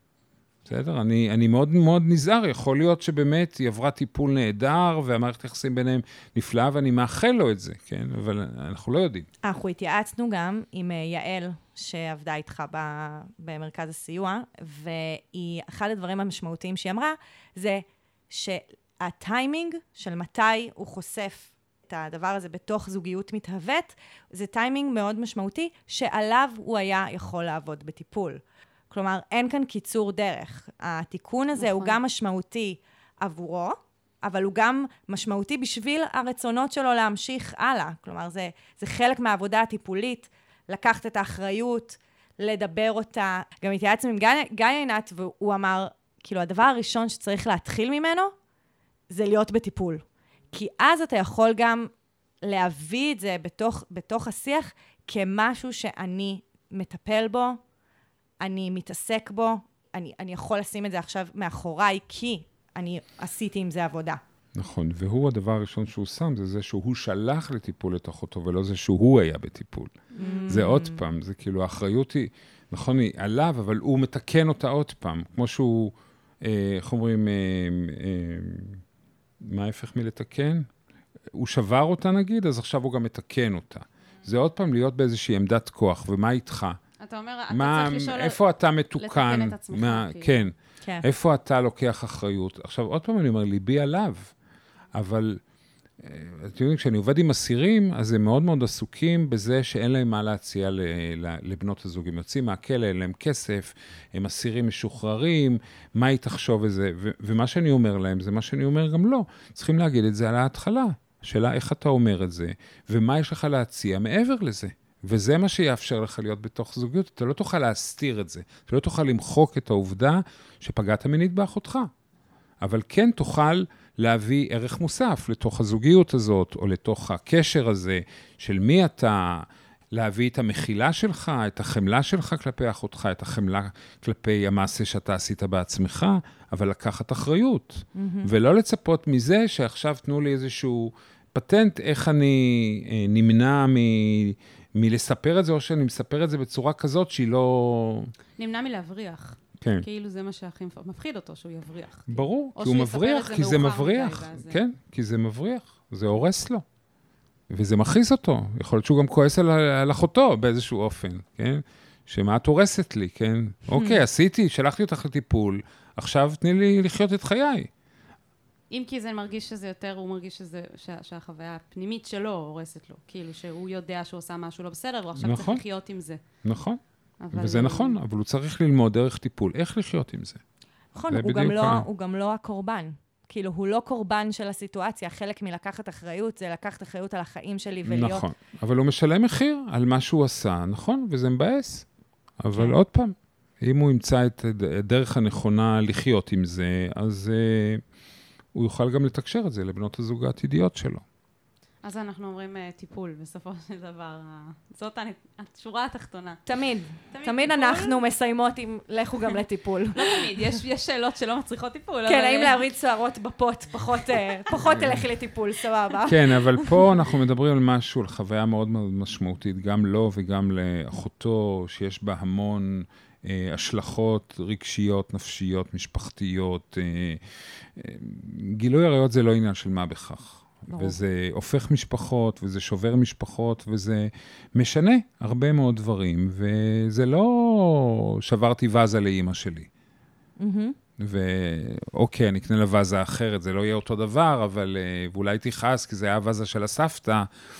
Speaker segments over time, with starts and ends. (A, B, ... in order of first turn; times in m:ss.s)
0:00.6-0:09.3 A
0:09.4-0:48.3 B
0:31.6-0:32.0 C
0:49.1-0:51.9 B
0:52.4-0:57.6 B
0:58.4-1:04.2 B
1:04.5-1:18.8 A
1:10.2-1:11.0 B
1:10.2-1:10.5 C
1:19.4-1:20.7 A
1:21.3-1:26.8 A
1:27.0-1:28.4 C
1:27.5-1:34.3 A
1:29.0-1:30.3 C
1:34.9-1:35.4 A
1:36.0-2:01.9 A
2:02.6-2:28.1 A
2:17.9-2:18.3 B
2:28.4-2:34.6 C
2:29.6-2:29.8 A
2:32.1-2:36.6 A
2:37.5-2:47.7 A
2:43.7-2:44.0 B
2:48.7-2:56.2 C
2:55.2-2:55.6 A
2:56.4-2:56.8 A
2:57.2-2:58.0 C
2:57.3-3:00.4 A
3:00.9-3:08.3 B
3:01.1-3:01.8 A
3:07.8-3:17.8 A
3:18.5-3:21.0 A
3:21.8-3:28.0 C
3:26.4-3:30.5 B
3:29.9-3:32.6 C
3:32.0-3:36.8 B
3:36.0-3:59.7 A
3:50.7-3:51.0 B
4:00.4-4:00.8 B
4:01.0-4:07.3 A